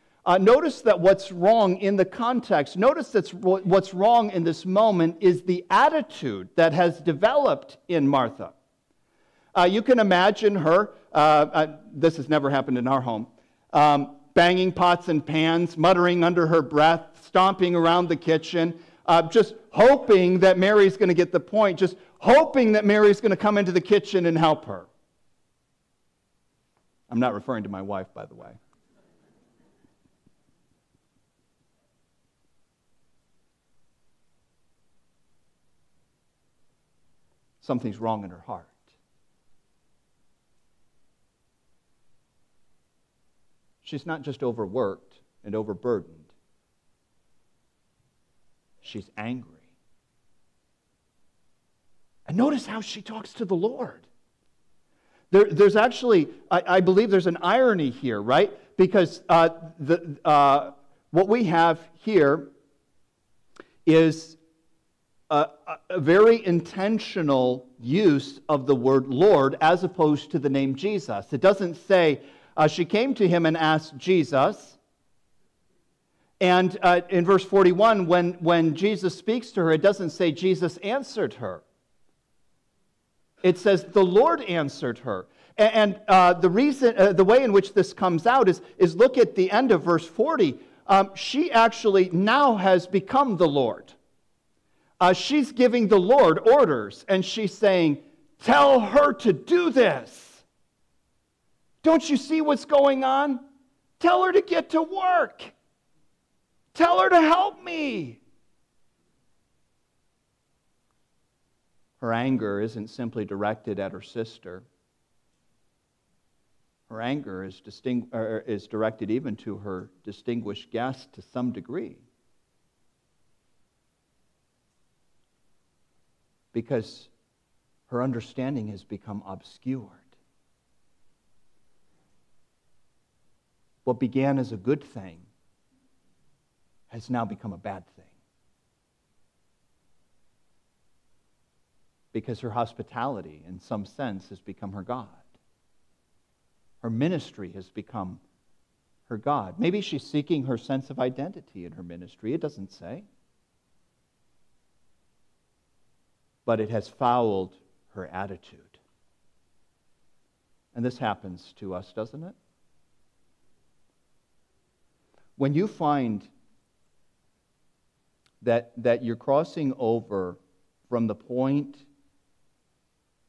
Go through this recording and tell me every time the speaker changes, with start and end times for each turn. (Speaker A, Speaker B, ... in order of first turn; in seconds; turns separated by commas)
Speaker A: 0.3-8.5, Speaker A: 9.6-24.9, Speaker A: 27.1-28.6, Speaker A: 37.6-38.8, Speaker A: 43.8-46.3, Speaker A: 48.8-49.6, Speaker A: 52.3-54.0, Speaker A: 55.3-62.5, Speaker A: 63.9-64.4, Speaker A: 65.3-74.8, Speaker A: 76.4-81.6, Speaker A: 83.4-94.0, Speaker A: 95.0-100.4, Speaker A: 101.8-103.4, Speaker A: 104.0-105.5, Speaker A: 106.7-108.2, Speaker A: 112.0-114.7, Speaker A: 116.9-122.0, Speaker A: 126.5-127.1, Speaker A: 127.9-130.1, Speaker A: 133.8-135.3, Speaker A: 136.9-138.1, Speaker A: 142.1-145.2, Speaker A: 146.8-148.2, Speaker A: 149.1-153.1, Speaker A: 156.5-158.8, Speaker A: 160.7-162.4, Speaker A: 165.4-166.3, Speaker A: 168.4-170.4, Speaker A: 170.9-171.8